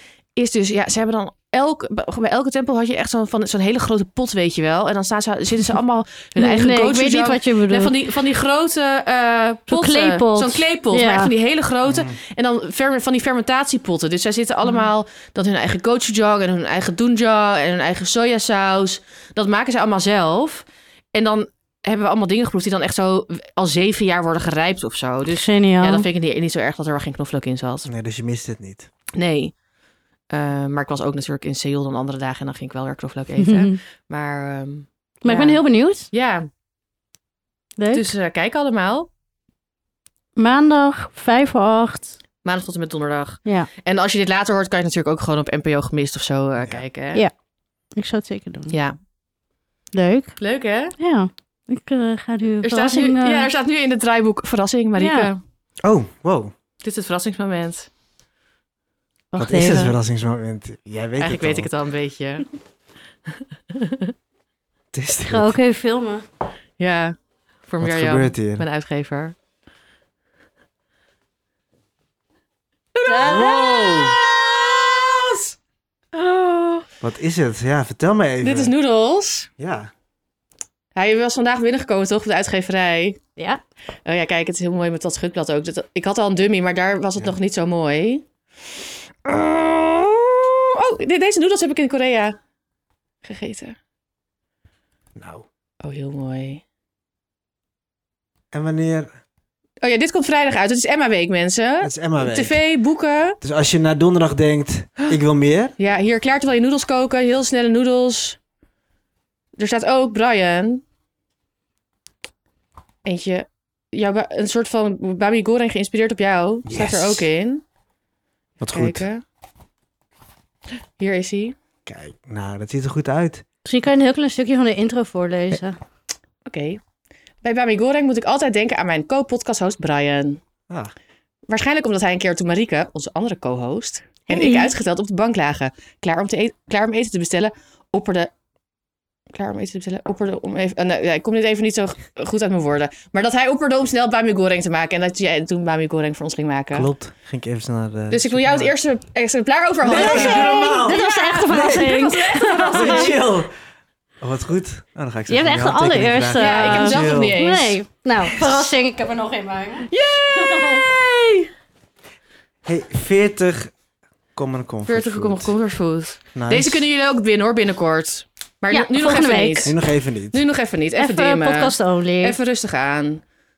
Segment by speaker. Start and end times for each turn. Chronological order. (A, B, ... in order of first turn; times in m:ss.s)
0:00.4-0:27.9 A
0:06.4-0:08.1 B
0:09.7-0:11.3 B
0:11.8-0:12.2 C
0:25.3-0:26.1 B
0:27.8-0:28.9 C
0:29.1-0:29.5 A
0:30.3-0:35.6 A
0:33.4-0:33.8 B
0:35.2-0:36.1 B
0:36.1-0:36.5 A
0:37.8-0:38.1 B
0:37.9-0:39.1 A
0:40.4-0:42.1 B
0:42.4-0:47.2 A
0:48.0-0:48.8 B
0:48.7-0:49.0 A
0:49.9-0:50.4 B
0:50.4-0:50.9 A
0:51.0-0:53.5 B
0:52.6-0:55.4 A
0:55.0-0:55.3 B
0:55.8-0:56.5 C
0:56.8-0:57.9 A
0:59.3-0:59.9 B
0:59.4-1:01.7 C
0:59.6-0:59.9 A
1:01.2-1:02.4 A
1:03.7-1:04.1 A
1:04.9-1:05.6 C
1:05.3-1:06.2 B
1:06.8-1:07.1 A
1:07.7-1:09.3 A
1:07.8-1:08.6 C
1:12.9-1:15.5 A
1:13.0-1:13.6 B
1:13.2-1:14.2 C
1:16.1-1:16.9 A
1:17.0-1:18.7 C
1:18.4-1:19.5 A
1:19.6-1:19.9 C
1:20.9-1:23.3 A
1:24.0-1:28.2 A
1:29.2-1:32.4 A
1:33.2-1:33.7 A
1:35.2-1:35.4 C
1:35.8-1:36.6 A
1:38.5-1:39.1 C
1:39.8-1:43.4 A
1:41.8-1:42.6 C
1:43.4-1:45.8 C
1:45.8-1:48.4 A
1:49.6-1:50.8 A
1:53.0-1:57.6 A
1:56.6-1:57.3 C
1:58.6-1:59.0 C
1:58.7-1:59.2 A
2:01.0-2:01.5 A
2:01.8-2:03.4 C
2:03.6-2:05.8 B
2:06.4-2:06.8 A
2:07.4-2:10.4 A
2:11.5-2:18.3 A
2:14.3-2:14.7 B
2:19.3-2:26.9 A
2:26.7-2:28.7 C
2:28.1-2:33.2 A
2:29.8-2:31.9 C
2:29.9-2:33.1 B
2:32.7-2:33.5 C
2:34.2-2:37.4 C
2:35.3-2:40.8 B
2:36.4-2:37.8 A
2:39.9-2:41.5 A
2:42.6-2:43.7 C
2:44.3-2:45.5 C
2:44.9-2:49.8 A
2:46.3-2:46.8 C
2:48.7-2:49.7 B
2:49.6-2:50.4 C
2:50.3-2:53.2 A
2:51.0-2:52.4 B